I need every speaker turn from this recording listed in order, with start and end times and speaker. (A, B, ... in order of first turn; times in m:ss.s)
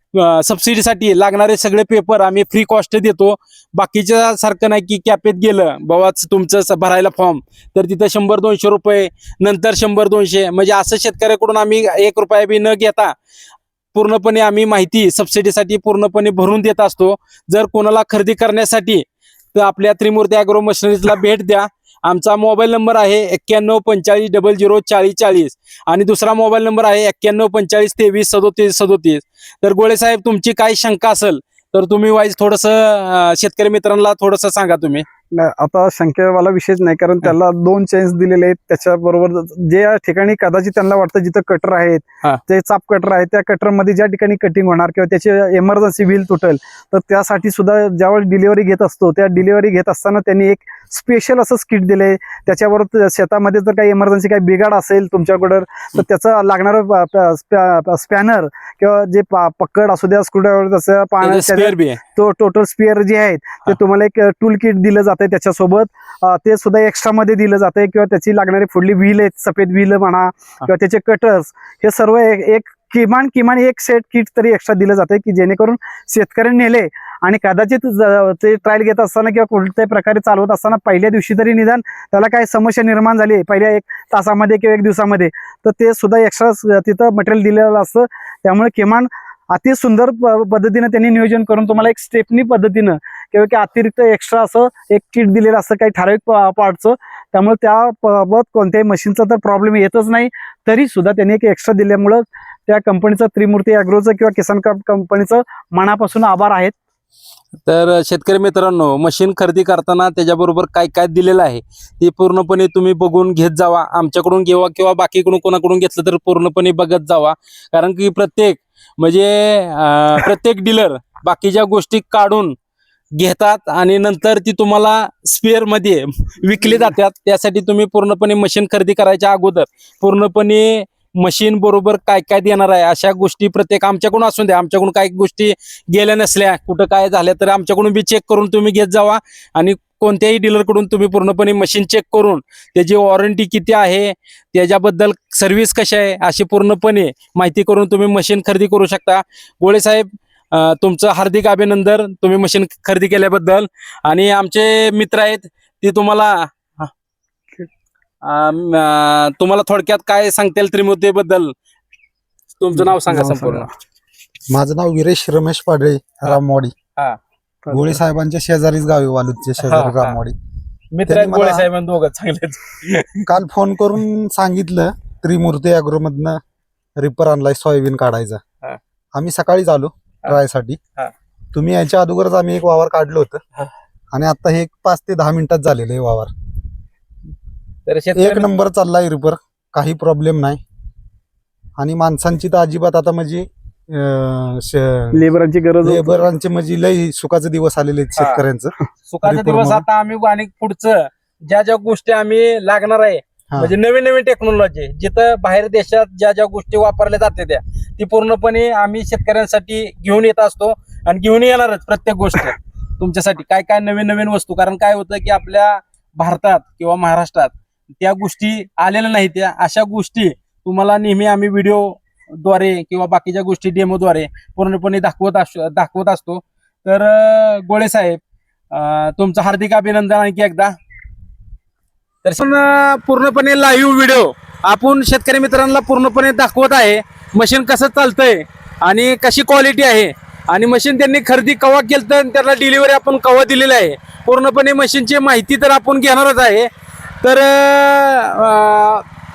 0:00.1-0:13.1 A
0:13.9-0:35.0 A
0:35.3-1:46.7 B
1:01.2-1:02.0 A
1:47.6-2:02.6 A
2:03.2-2:36.9 A
2:38.2-2:41.5 A
2:42.6-2:43.7 A
2:42.8-2:43.7 B
2:44.5-2:46.7 C
2:47.6-2:48.0 B
2:47.7-2:50.4 C
2:49.6-2:50.2 A
2:50.9-2:53.3 A
2:51.1-2:51.6 C
2:53.3-2:56.4 C
2:57.0-2:58.4 C
2:59.1-3:00.8 C
3:01.5-3:03.4 C
3:04.1-3:06.3 C
3:07.9-3:08.5 A
3:08.1-3:10.6 C
3:11.8-3:15.2 C
3:15.1-3:16.3 B
3:15.8-3:19.8 C
3:18.2-3:18.4 A
3:19.1-3:48.2 A
3:48.7-3:50.7 A
3:52.2-4:06.7 A
4:07.2-4:09.0 A